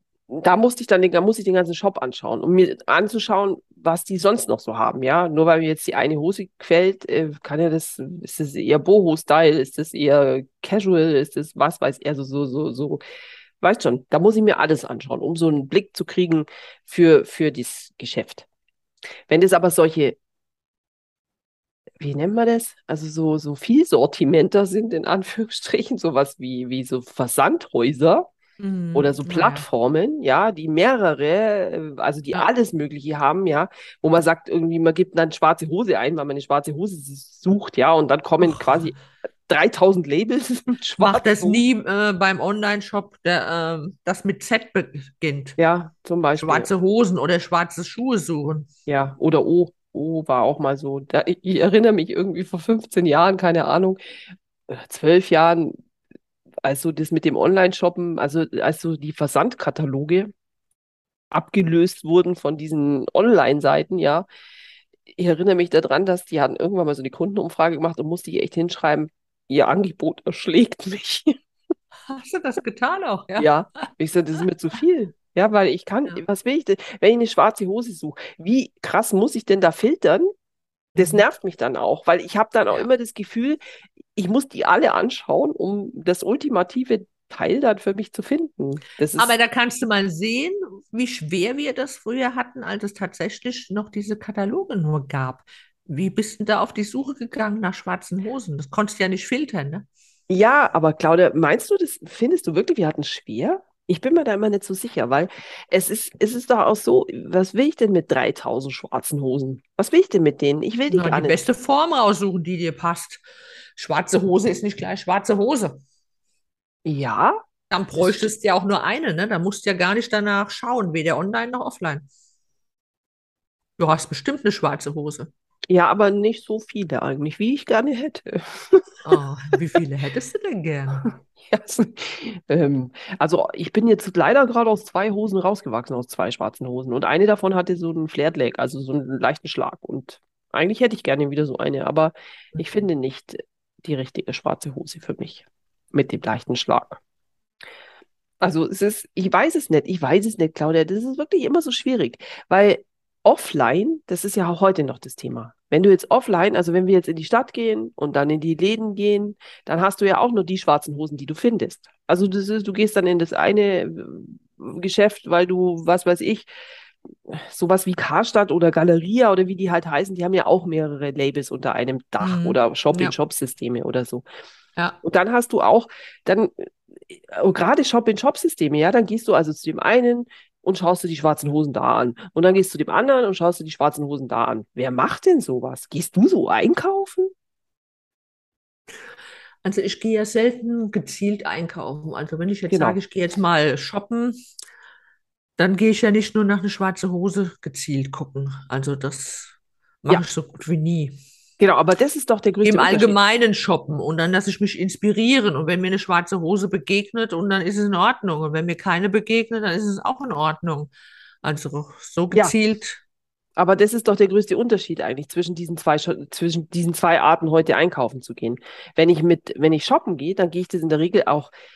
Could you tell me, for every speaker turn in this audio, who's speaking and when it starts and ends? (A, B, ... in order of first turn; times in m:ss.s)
0:00.3-0:13.0 A
0:13.6-0:18.4 A
0:19.3-0:20.2 A
0:22.0-0:28.3 A
0:28.6-0:29.6 B
0:28.9-0:41.6 A
0:38.4-0:39.0 B
0:41.0-0:45.6 B
0:45.6-0:46.7 A
0:46.4-0:48.7 B
0:48.9-0:54.0 A
0:54.7-0:55.8 A
0:56.6-1:00.3 A
1:01.3-1:04.2 A
1:05.1-1:11.4 A
1:12.1-1:13.5 B
1:13.4-1:20.3 A
1:21.0-1:21.2 B
1:21.0-1:29.3 A
1:29.2-1:39.9 B
1:40.3-1:51.4 A
1:50.9-1:53.2 B
1:53.7-1:55.8 B
1:56.8-1:57.3 A
1:57.7-2:02.0 B
1:58.0-1:58.3 A
2:03.8-2:05.3 B
2:05.7-2:09.0 A
2:09.0-2:11.1 B
2:11.4-2:27.0 A
2:28.4-2:46.5 A
2:47.3-2:54.2 A
2:52.2-2:53.1 B
2:55.0-3:07.3 A
3:09.6-3:14.4 B
3:12.7-3:13.0 A
3:15.6-3:21.2 B
3:21.6-3:23.2 A
3:22.6-3:30.9 B
3:31.4-3:33.0 B
3:33.6-3:41.5 A